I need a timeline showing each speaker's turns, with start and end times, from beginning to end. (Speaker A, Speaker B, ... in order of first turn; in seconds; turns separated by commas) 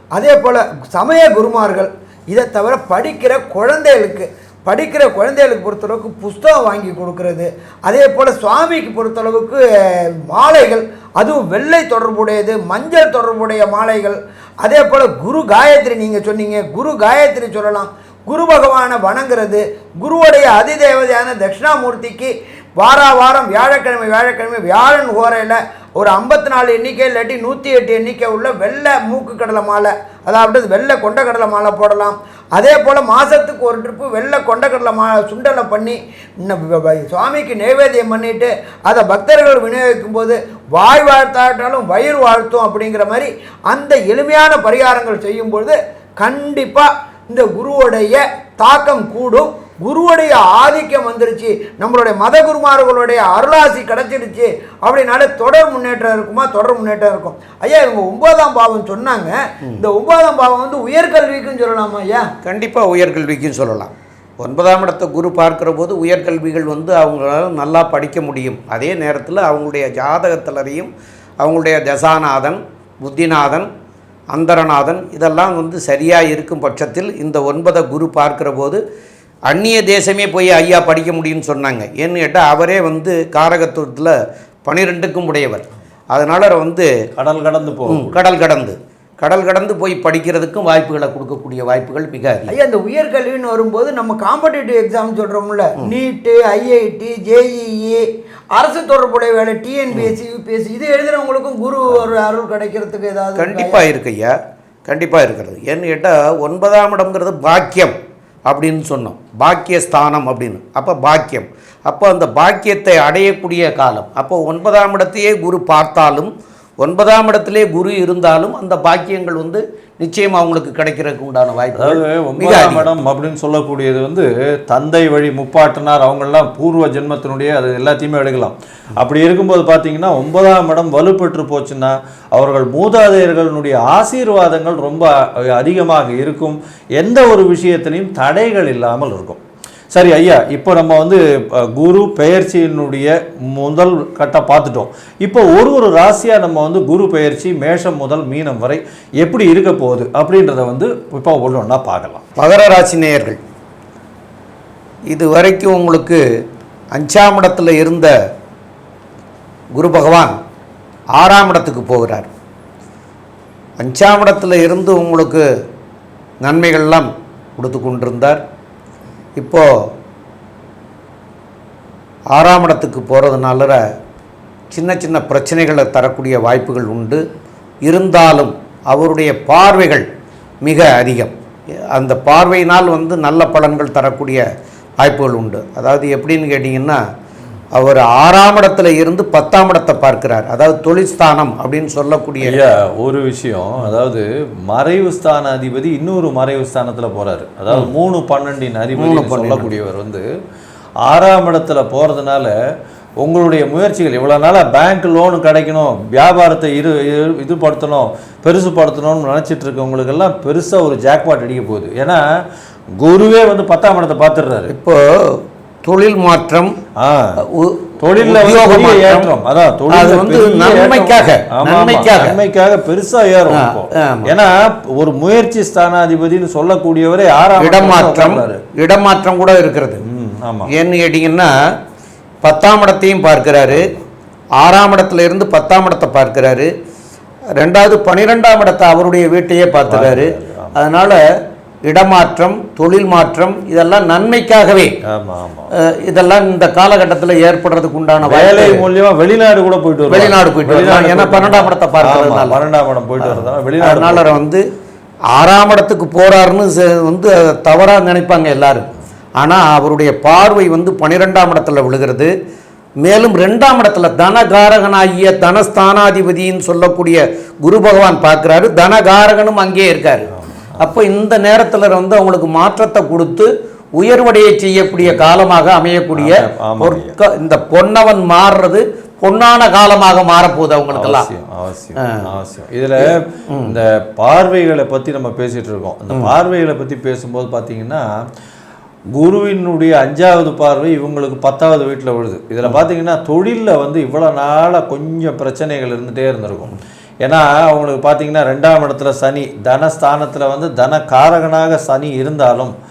Speaker A: 0.1-62.3, Speaker B: 62.4-73.7, Speaker B: 74.3-78.8, Speaker B: 79.5-86.9, Speaker C: 87.2-88.2, Speaker B: 87.9-92.5, Speaker A: 92.5-103.8, Speaker B: 103.3-104.3, Speaker B: 104.9-108.0, Speaker B: 108.5-122.9, Speaker C: 121.7-139.4, Speaker C: 139.9-152.2, Speaker B: 152.4-153.4, Speaker B: 155.1-156.2, Speaker B: 156.9-158.1, Speaker B: 159.8-160.3, Speaker B: 161.2-162.3, Speaker B: 163.8-165.4, Speaker B: 166.4-168.4, Speaker B: 169.4-169.7, Speaker B: 172.3-173.8, Speaker B: 174.7-177.2, Speaker B: 177.8-180.1, Speaker B: 180.6-181.3, Speaker B: 181.9-184.4, Speaker B: 185.0-187.0, Speaker B: 187.7-192.6, Speaker C: 192.4-200.2, Speaker B: 199.0-199.7, Speaker C: 201.0-202.5, Speaker C: 203.2-212.2, Speaker C: 212.9-214.7, Speaker B: 214.7-216.8, Speaker C: 217.0-217.4, Speaker B: 217.4-219.3, Speaker C: 218.0-228.6, Speaker B: 219.9-222.4, Speaker B: 223.5-224.3, Speaker B: 227.6-230.0, Speaker C: 230.0-230.7, Speaker B: 230.7-231.6, Speaker B: 232.4-233.9, Speaker C: 233.7-234.0, Speaker B: 234.6-236.7, Speaker B: 237.5-241.2, Speaker C: 239.9-240.8, Speaker B: 241.8-244.9, Speaker C: 245.0-245.7, Speaker B: 245.7-248.8, Speaker C: 248.2-254.4, Speaker B: 250.1-252.6, Speaker B: 253.2-254.7, Speaker B: 255.3-262.3, Speaker B: 263.0-281.3, Speaker C: 270.3-270.9, Speaker C: 276.1-277.1, Speaker C: 280.9-288.0, Speaker B: 282.0-282.3, Speaker B: 283.0-283.8, Speaker C: 289.1-302.7